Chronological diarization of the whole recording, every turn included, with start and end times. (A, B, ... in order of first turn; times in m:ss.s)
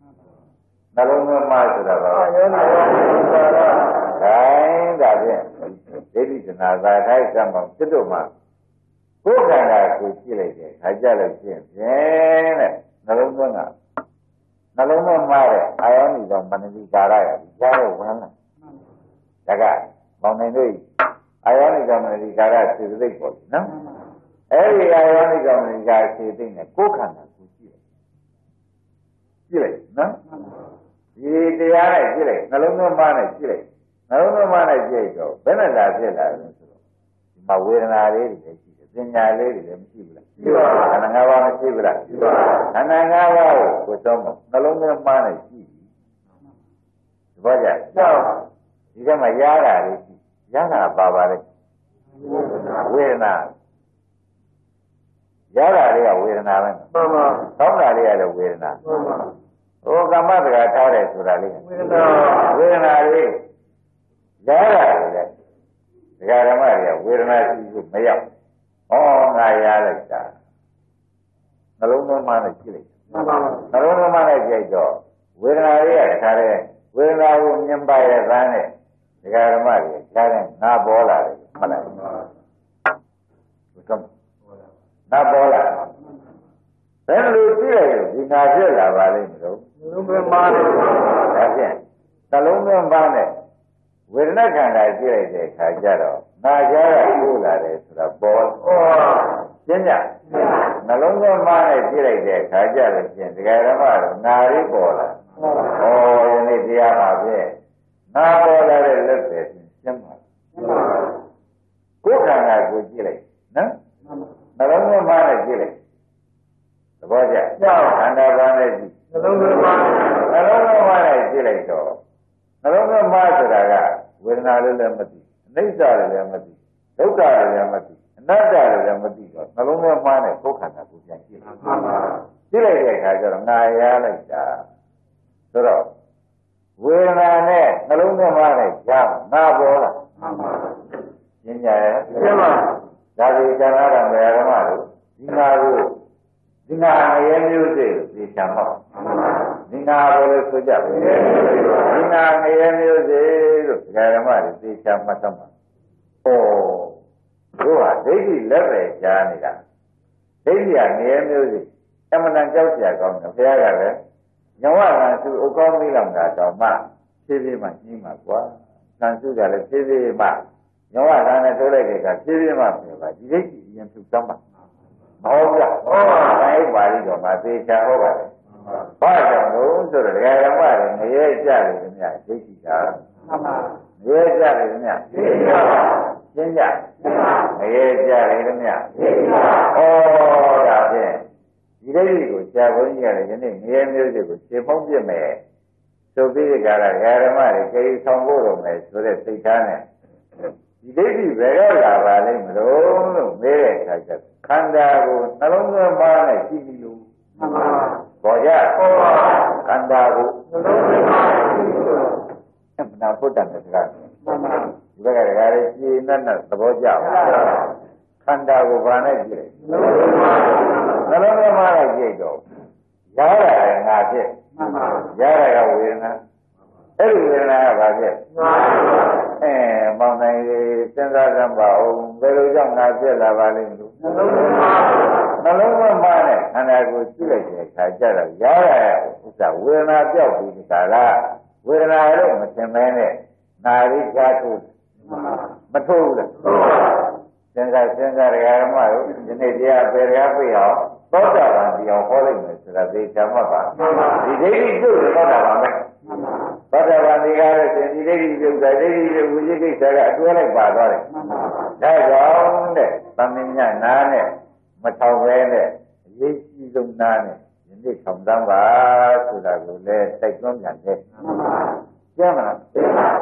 0:00.9-0:02.3 A
0:02.1-0:04.0 B
0:04.1-0:08.3 A
0:09.2-0:13.7 A
0:14.7-0:18.3 A
0:19.5-0:20.8 A
0:21.4-0:23.8 A
0:24.5-0:27.8 A
0:29.5-0:30.2 A
0:31.2-0:36.8 A
0:37.4-0:45.8 A
0:40.4-0:40.9 B
0:47.4-0:48.3 A
0:48.0-0:48.3 B
0:48.9-0:51.4 A
0:52.6-0:53.5 A
0:55.5-0:56.9 A
0:56.9-0:57.4 B
0:57.5-0:58.8 A
0:58.8-0:59.3 B
0:59.8-1:01.7 A
1:01.7-1:02.5 B
1:02.3-1:03.4 A
1:04.4-1:05.3 A
1:06.2-1:08.2 A
1:08.9-1:10.3 A
1:11.8-1:12.9 A
1:13.1-1:13.6 B
1:13.7-1:18.7 A
1:19.2-1:22.0 A
1:23.8-1:24.1 A
1:25.1-1:25.8 A
1:27.1-1:29.6 A
1:29.8-1:31.2 B
1:31.3-1:33.3 A
1:34.1-1:38.8 A
1:38.6-1:39.4 B
1:39.6-1:40.1 A
1:40.8-1:45.2 A
1:45.7-1:47.5 A
1:48.1-1:50.2 A
1:52.0-1:53.7 A
1:54.6-1:55.8 A
1:57.0-1:58.9 A
1:57.6-1:58.0 B
1:59.1-2:00.2 B
2:00.2-2:02.0 A
2:02.6-2:11.6 A
2:12.5-2:14.6 A
2:15.5-2:15.9 A
2:16.8-2:20.0 A
2:21.4-2:22.4 A
2:22.2-2:22.6 B
2:23.2-2:26.0 A
2:26.7-2:28.8 A
2:29.7-2:35.5 A
2:36.2-2:37.0 A
2:37.6-2:39.6 A
2:40.4-2:44.0 A
2:44.6-2:54.4 A
2:55.2-2:58.3 A
2:59.0-3:03.0 A
3:04.0-3:05.3 A
3:05.2-3:05.6 B
3:06.3-3:06.9 A
3:07.4-3:11.2 A
3:11.8-3:15.4 A
3:16.1-3:19.8 A
3:20.8-3:27.0 A
3:27.4-3:28.0 B
3:28.2-3:30.4 A
3:28.9-3:29.3 B
3:30.5-3:32.2 B
3:32.8-3:34.2 A
3:35.0-3:37.5 A
3:38.2-3:39.6 A
3:39.7-3:40.7 B
3:41.0-3:42.4 A
3:43.2-3:44.3 A
3:44.6-3:45.0 B
3:45.0-3:46.2 A
3:47.0-3:48.2 A
3:48.3-3:49.1 B
3:49.4-3:54.2 A
3:54.1-3:55.1 B
3:55.3-4:04.7 A
4:05.7-4:06.4 A
4:07.5-4:15.9 A
4:13.8-4:14.2 B
4:16.7-4:21.1 A
4:21.7-4:31.0 A
4:32.2-4:33.0 A